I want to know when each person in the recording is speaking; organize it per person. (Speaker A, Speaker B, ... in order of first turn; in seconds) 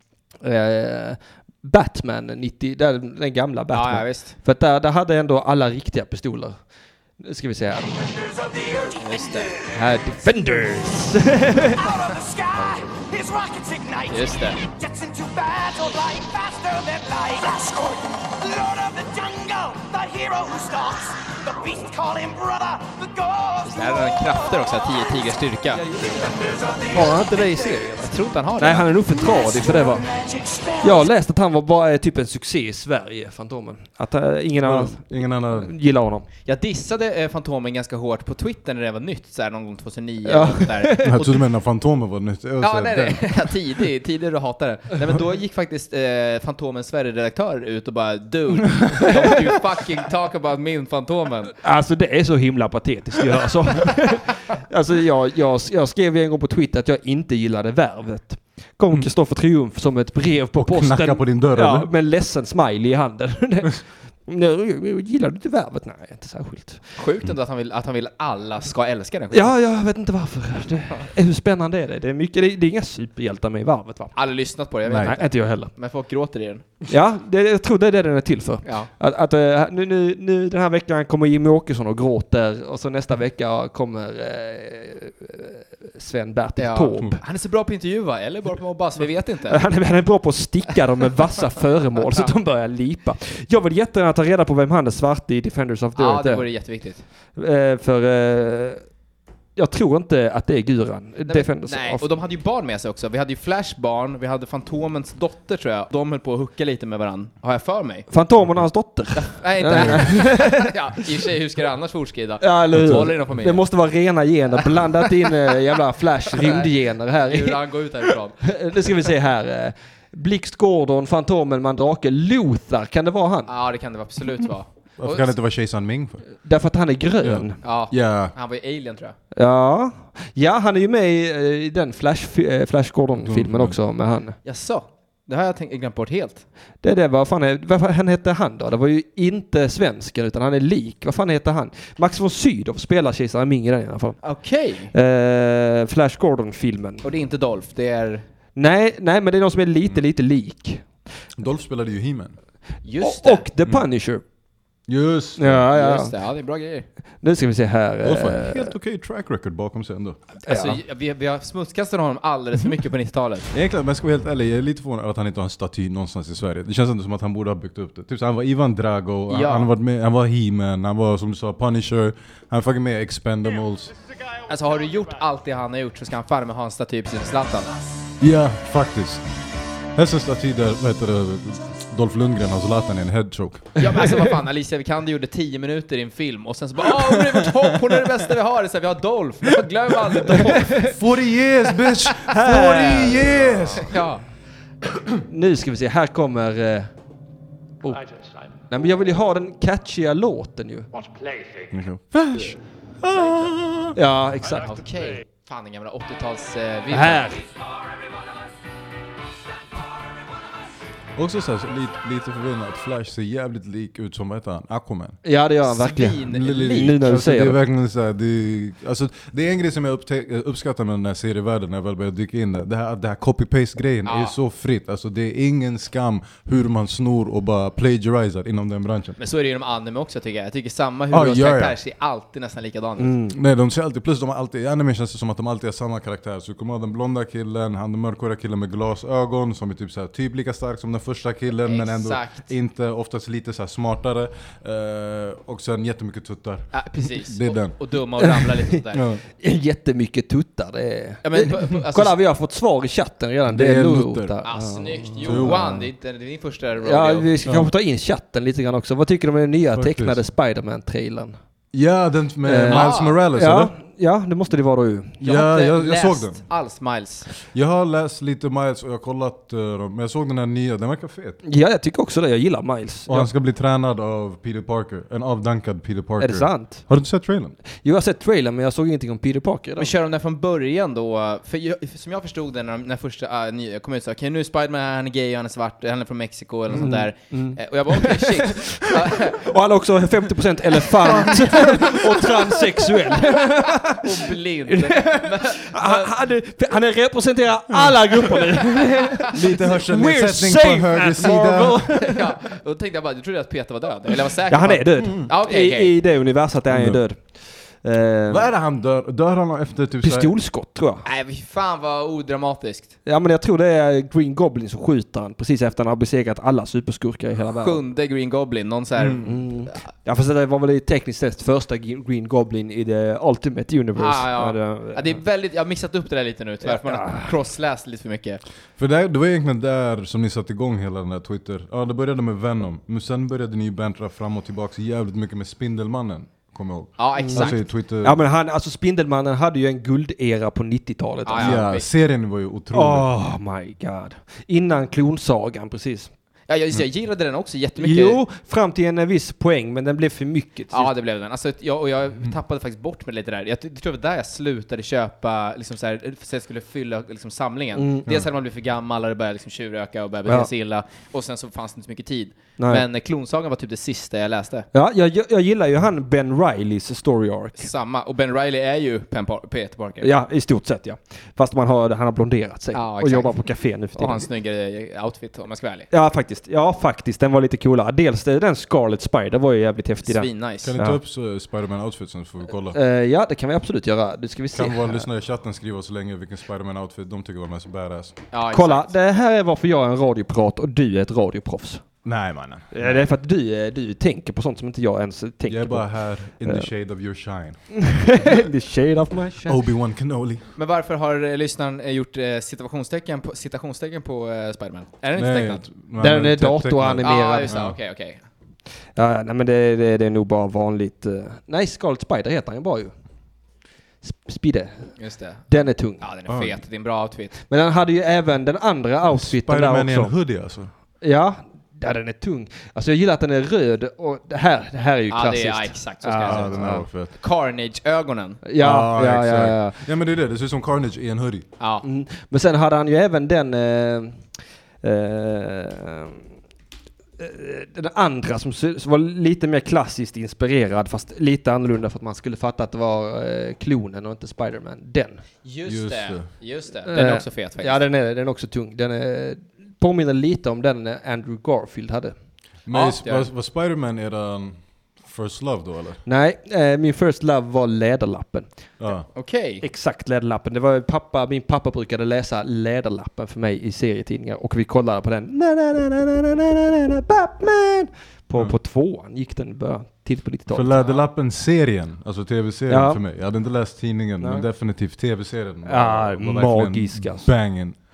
Speaker A: 0.4-7.9, 9.7-11.8, 25.7-30.1, 30.8-36.3, 40.2-41.3, 51.6-66.8, 69.3-74.2, 75.0-75.7, 76.9-87.2, 89.5-96.5, 97.3-98.8, 99.6-102.0, 108.1-110.7, 112.4-123.5, 126.4-127.6, 129.3-134.4, 136.8-144.2, 144.9-147.0, 148.6-150.8, 153.0-154.2, 155.4-156.1, 157.2-158.7, 160.4-160.8, 190.3-190.9, 192.2-193.5, 195.2-196.9, 197.8-198.1, 198.7-200.9, 203.9-204.8, 206.9-207.4, 215.2-217.6, 233.0-233.4, 248.2-248.7, 249.4-255.8, 256.8-261.4, 262.5-265.4, 271.4-273.3, 276.2-276.9, 277.8-279.9, 286.7-294.1, 294.7-302.3, 304.5-308.5, 310.0-311.0, 313.1-317.8, 319.2-325.2, 326.6-327.3, 337.2-341.6, 342.7-346.1, 347.8-350.9, 357.8-358.1, 362.6-362.9, 364.7-367.7, 370.0-374.2, 375.9-381.0, 382.7-385.1, 388.5-391.8, 392.7-395.9, 396.4-396.7, 397.8-399.6, 406.0-407.5, 409.0-412.9, 414.0-414.9, 415.5-416.0, 417.5-420.1, 421.0-426.9, 428.4-429.8, 431.8-434.2, 434.8-436.2, 437.2-445.2, 446.9-452.1, 456.1-458.5, 459.6-470.8, 472.7-473.0, 474.2-474.4, 475.7-477.3
Speaker B: 3.7-4.3, 9.0-9.7, 14.1-14.6, 23.6-25.8, 28.0-28.9, 36.5-41.2, 42.6-51.5, 67.0-69.5, 74.2-76.7, 78.6-78.9, 86.6-89.7, 92.0-92.3, 96.0-97.0, 101.3-108.1, 109.2-113.7, 116.3-116.7, 117.2-118.5, 123.5-125.3, 127.6-129.2, 134.4-136.4, 144.2-144.9, 147.0-148.2, 152.8-153.4, 155.7-156.9, 160.5-163.5, 169.3-169.7, 174.5-177.7, 183.8-190.9, 193.8-194.2, 204.6-207.3, 215.6-217.0, 224.1-224.3, 229.2-233.2, 241.7-242.5, 246.7-249.0, 251.2-252.2, 254.4-257.3, 262.7-263.2, 265.3-267.3, 279.8-289.4, 293.8-296.2, 301.9-305.9, 311.0-313.0, 317.5-319.8, 324.0-328.4, 337.0-337.6, 341.2-341.9, 346.5-348.2, 350.7-364.7, 367.6-370.1, 372.7-375.9, 380.1-380.7, 388.3-388.9, 400.6-405.7, 407.0-408.2, 415.0-417.4, 425.1-428.4, 431.6-431.8, 445.4-447.8, 452.7-453.3, 459.1-459.6, 470.8-471.1
Speaker C: 8.1-9.7, 11.7-24.7, 26.2-27.9, 29.1-31.1
Speaker D: 34.6-35.7, 41.0-43.5, 60.5-61.9, 74.9-75.1, 109.7-110.1, 125.0-126.3, 127.2-128.3, 133.2-133.8, 151.4-152.4, 154.9-155.7, 158.0-160.2, 163.5-173.9, 178.2-179.2, 179.9-183.7, 187.2-187.5, 190.8-194.0, 201.7-204.0, 211.2-215.2, 216.2-229.2, 231.1-231.8, 233.3-247.8, 248.9-249.2, 253.5-254.4, 255.2-255.7, 257.5-257.7, 259.7-260.2, 261.7-263.8, 265.2-266.4, 267.5-271.4, 273.1-277.6, 291.0-292.2, 299.3-302.0, 305.0-305.3, 306.7-307.0, 308.3-310.3, 319.0-319.3, 328.8-338.2, 341.4-343.1, 380.6-382.8, 384.5-388.2, 392.1-393.1, 395.5-397.6, 399.4-400.4, 405.1-407.8, 416.3-416.6, 419.1-420.7, 426.2-427.2, 428.6-431.5, 445.7-446.3, 452.7-456.0, 458.8-459.1, 470.5-477.8